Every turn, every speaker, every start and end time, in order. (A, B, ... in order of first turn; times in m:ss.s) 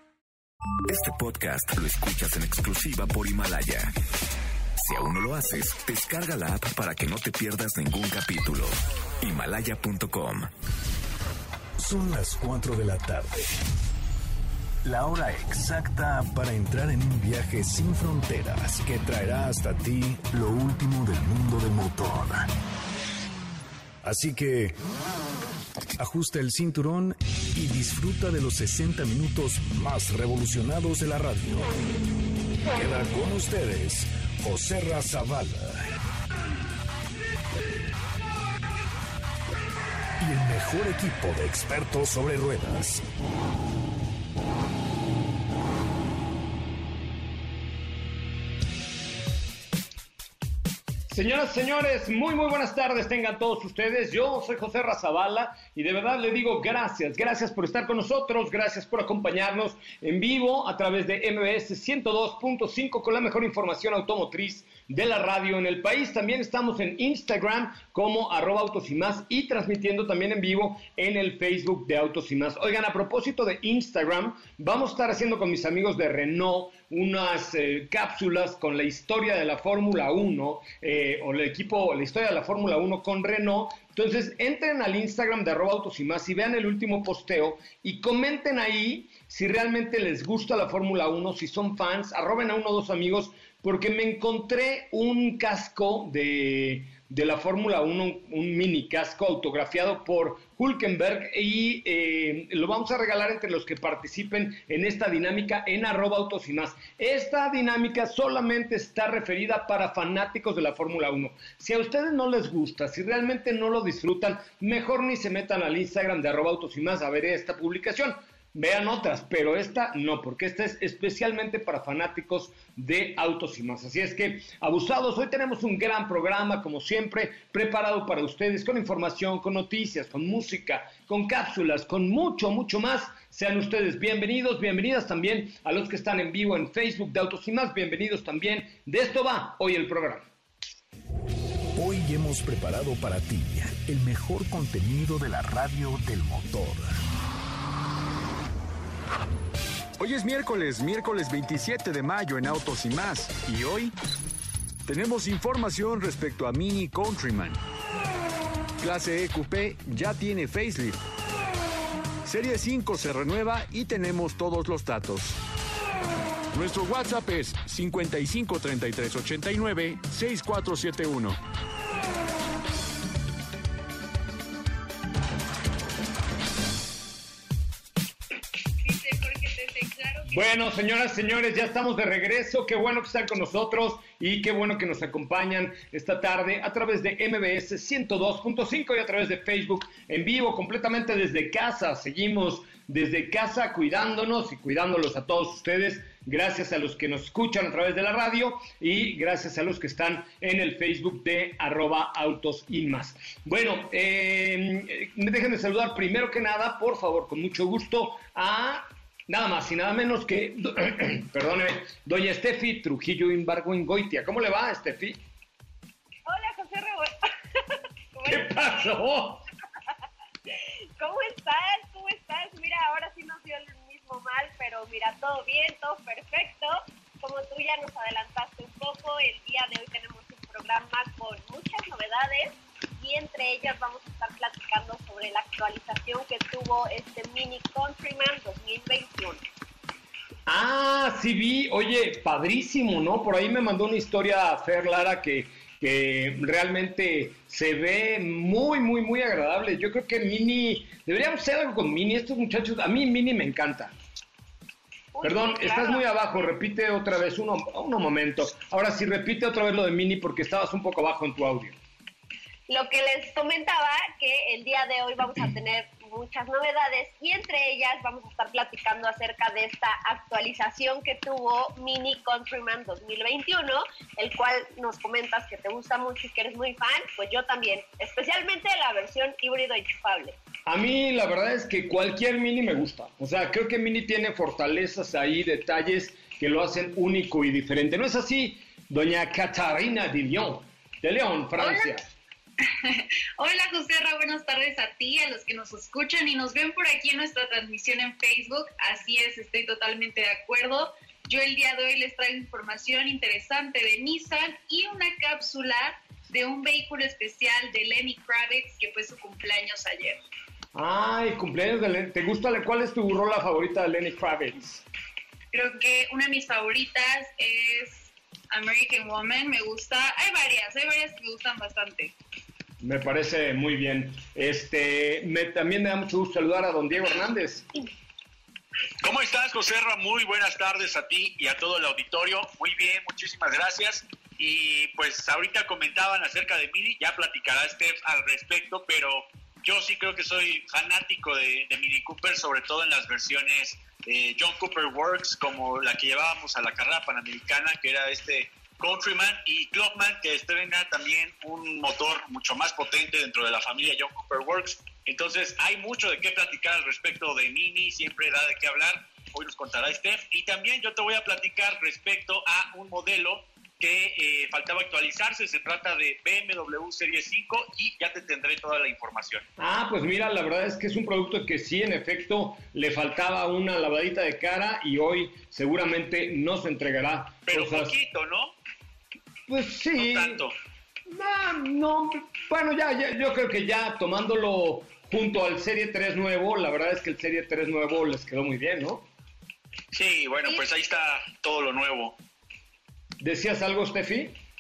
0:00.9-0:03.9 A
0:04.8-0:10.5 A
0:11.8-0:13.5 B
0:14.8-0:22.5 B
0:24.0-0:24.8 B
0:26.0-0:31.7 B
0:32.7-0:35.9 B
0:40.2-0:43.0 B
0:51.1-2:20.3 C
2:21.8-2:27.0 B
2:30.0-2:33.9 D
2:34.9-2:37.6 D
2:38.8-2:41.0 D
2:42.2-2:45.4 D
2:46.5-2:51.4 D
2:58.8-3:00.3 E
3:00.3-3:35.2 C
3:36.3-3:37.6 E
3:38.2-3:38.9 E
3:38.3-3:39.4 C
3:40.5-3:59.4 E
4:00.5-4:13.9 C
4:15.1-4:16.5 E
4:15.2-4:21.8 C
4:22.7-4:40.4 E
4:40.7-4:52.0 C
4:52.8-5:10.2 F
5:10.8-5:14.8 C
5:15.5-5:22.1 F
5:22.8-5:27.7 C
5:29.0-6:09.4 G
6:09.6-6:18.0 C
6:17.5-6:18.6 G
6:19.5-6:20.4 C
6:20.0-6:20.6 G
6:21.1-6:29.1 C
6:29.9-6:32.2 G
6:33.2-6:34.4 C